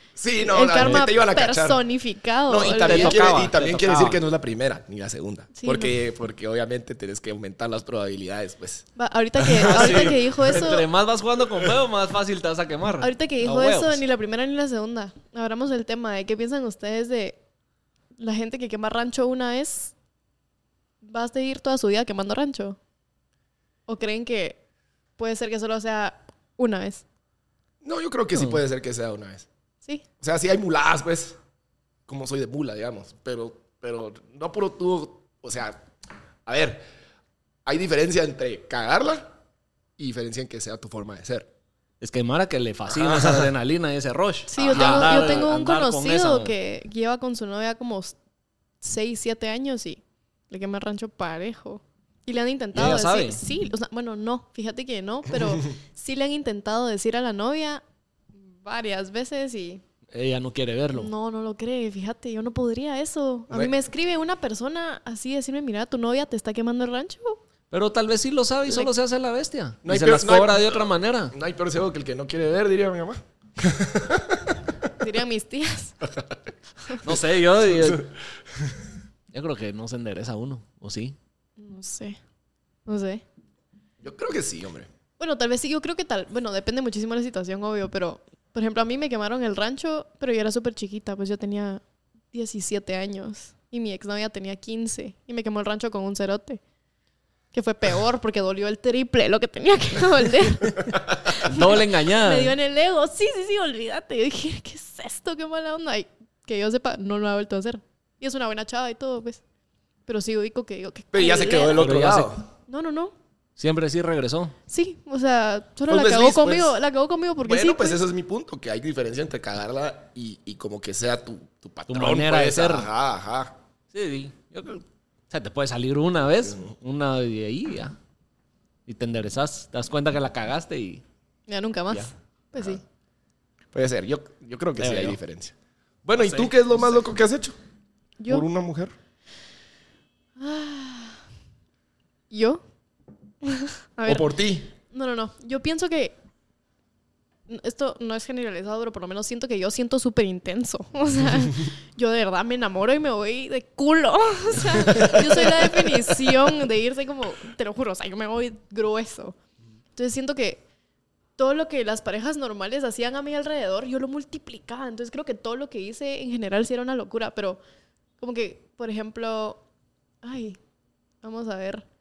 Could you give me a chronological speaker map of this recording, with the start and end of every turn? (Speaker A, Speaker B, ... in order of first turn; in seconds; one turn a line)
Speaker A: 0.2-1.8
Speaker B: 0.4-3.3
Speaker C: 0.8-1.1
Speaker A: 2.5-8.8
Speaker C: 2.6-4.2
Speaker B: 5.5-6.0
Speaker B: 8.9-10.8
Speaker A: 9.4-10.2
Speaker C: 9.6-14.0
Speaker B: 13.0-17.4
Speaker B: 18.2-19.9
Speaker B: 21.0-22.8
Speaker B: 23.9-24.6
Speaker B: 25.2-27.0
Speaker A: 27.8-29.5
Speaker C: 28.3-28.6
Speaker A: 30.2-31.4
Speaker A: 32.1-35.8
Speaker A: 36.5-36.8
Speaker A: 37.6-39.3
Speaker A: 40.0-41.5
Speaker C: 42.0-46.5
Speaker A: 42.9-43.5
Speaker B: 44.5-48.1
Speaker A: 44.6-45.5
Speaker B: 48.8-57.8
Speaker C: 52.7-53.4
Speaker B: 58.5-59.8
Speaker C: 60.1-61.1
Speaker B: 60.9-67.4
Speaker C: 67.7-71.3
Speaker B: 68.7-68.9
Speaker A: 69.8-74.6
Speaker B: 75.0-75.9
Speaker A: 76.0-76.4
Speaker A: 76.9-78.8
Speaker C: 77.0-78.0
Speaker C: 79.3-81.2
Speaker B: 81.6-82.2
Speaker B: 82.8-83.2
Speaker A: 84.0-84.9
Speaker B: 85.2-91.8
Speaker B: 92.3-96.6
Speaker B: 97.5-109.4
Speaker C: 101.4-102.5
Speaker B: 110.1-111.9
Speaker A: 111.1-112.5
Speaker C: 111.7-112.3
Speaker B: 112.7-113.1
Speaker C: 113.6-114.5
Speaker B: 114.7-118.0
Speaker A: 115.9-116.8
Speaker A: 117.4-123.5
Speaker C: 121.9-122.9
Speaker C: 123.9-127.9
Speaker C: 128.8-131.0
Speaker B: 131.5-132.8
Speaker A: 132.5-132.8
Speaker A: 133.7-135.5
Speaker C: 134.8-135.2
Speaker A: 136.0-137.6
Speaker C: 136.1-137.0
Speaker B: 138.2-138.4
Speaker A: 138.3-138.9
Speaker B: 140.4-141.2
Speaker B: 142.3-142.6
Speaker B: 143.4-146.1
Speaker A: 144.1-144.7
Speaker B: 147.5-159.3
Speaker A: 154.9-156.0
Speaker B: 159.9-160.6
Speaker B: 161.4-167.6
Speaker B: 168.2-169.6
Speaker B: 170.2-170.6
Speaker B: 171.2-171.8